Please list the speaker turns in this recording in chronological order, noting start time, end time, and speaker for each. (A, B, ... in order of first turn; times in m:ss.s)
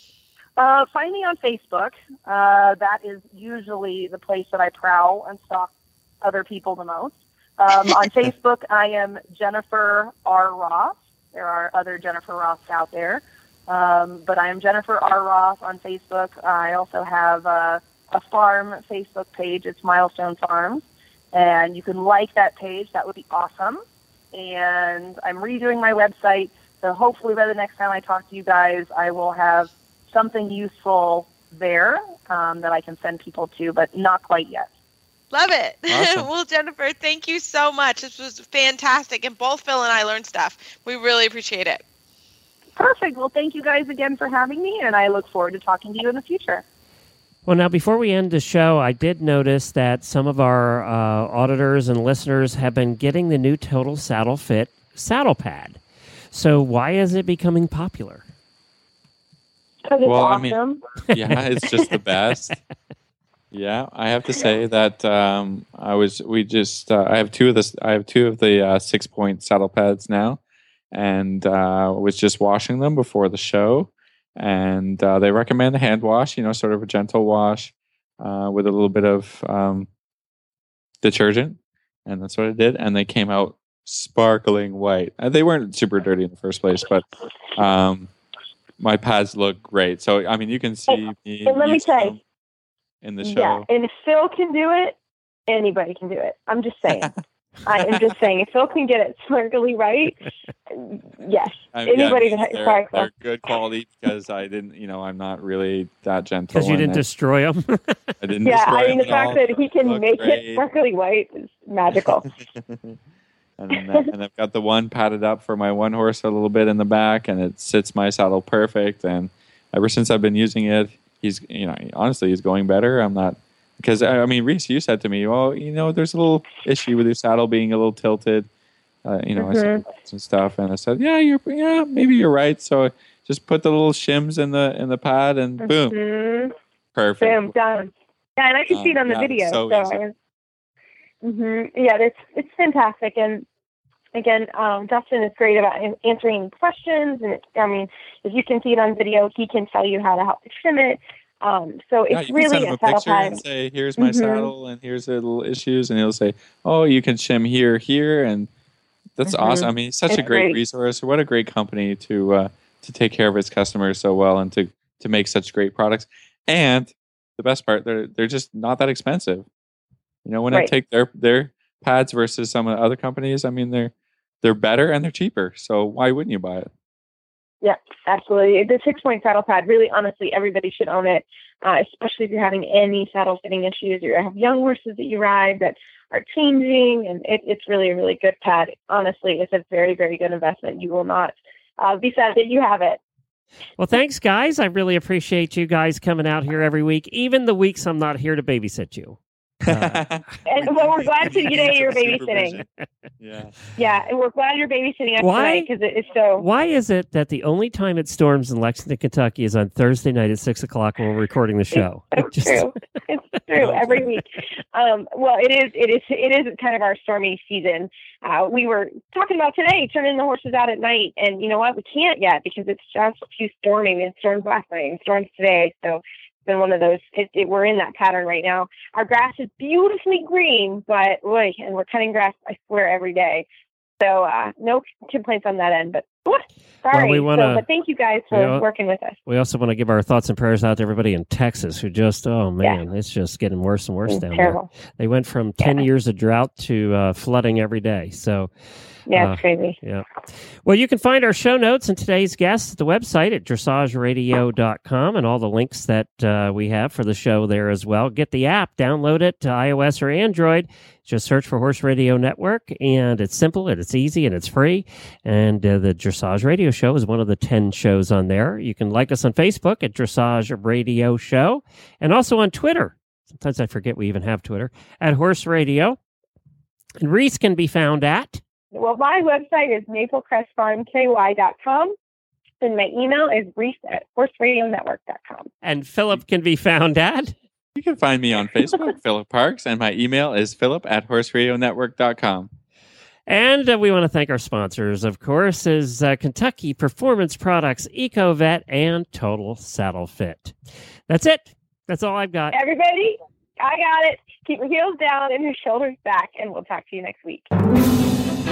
0:00.6-0:05.7 A
0:06.2-0:34.7 A
0:35.3-0:41.8 B
0:35.9-0:36.3 C
0:42.8-0:46.6 A
0:47.4-0:55.8 D
0:56.3-0:58.2 D
0:59.8-1:00.8 E
1:00.0-1:02.6 C
1:01.1-1:01.4 D
1:03.5-1:10.4 C
1:10.9-1:19.9 C
1:21.0-1:28.1 C
1:28.8-1:32.2 C
1:30.9-1:32.1 E
1:33.0-1:33.7 C
1:33.2-1:35.0 E
1:35.5-1:37.1 E
1:37.6-1:40.2 E
1:40.7-1:43.1 E
1:41.7-1:47.0 C
1:46.5-1:48.1 D
1:48.2-1:50.6 C
1:48.4-1:52.3 E
1:51.9-1:53.0 C
1:53.6-2:08.5 C
2:09.0-2:16.0 C
2:09.4-2:09.8 E
2:15.6-2:16.5 E
2:16.9-2:17.5 C
2:17.2-2:20.1 E
2:18.7-2:20.0 C
2:21.2-2:23.4 E
2:24.1-2:33.4 E
2:32.1-2:38.5 C
2:34.0-2:34.5 E
2:39.2-2:49.5 C
2:39.3-2:40.6 E
2:50.2-2:56.7 C
2:57.6-3:13.0 E
3:13.8-3:20.0 D
3:19.6-3:22.7 C
3:20.5-3:22.6 E
3:23.2-3:23.5 C
3:23.8-3:26.4 E
3:25.2-3:25.7 D
3:26.4-3:32.7 D
3:31.7-3:53.4 E
3:33.6-3:34.1 C
3:54.0-3:59.2 E
3:56.9-3:57.6 D
3:58.3-3:58.6 D
3:59.3-4:08.5 D
4:04.1-4:04.7 E
4:09.1-4:09.8 E
4:09.1-4:10.1 D
4:10.6-4:36.0 D
4:37.0-4:38.4 D
4:38.7-4:42.0 E
4:42.6-4:45.5 E
4:45.6-4:47.3 D
4:47.7-4:52.5 C
4:53.3-5:00.5 D
5:01.1-5:02.6 D
5:02.5-5:07.5 E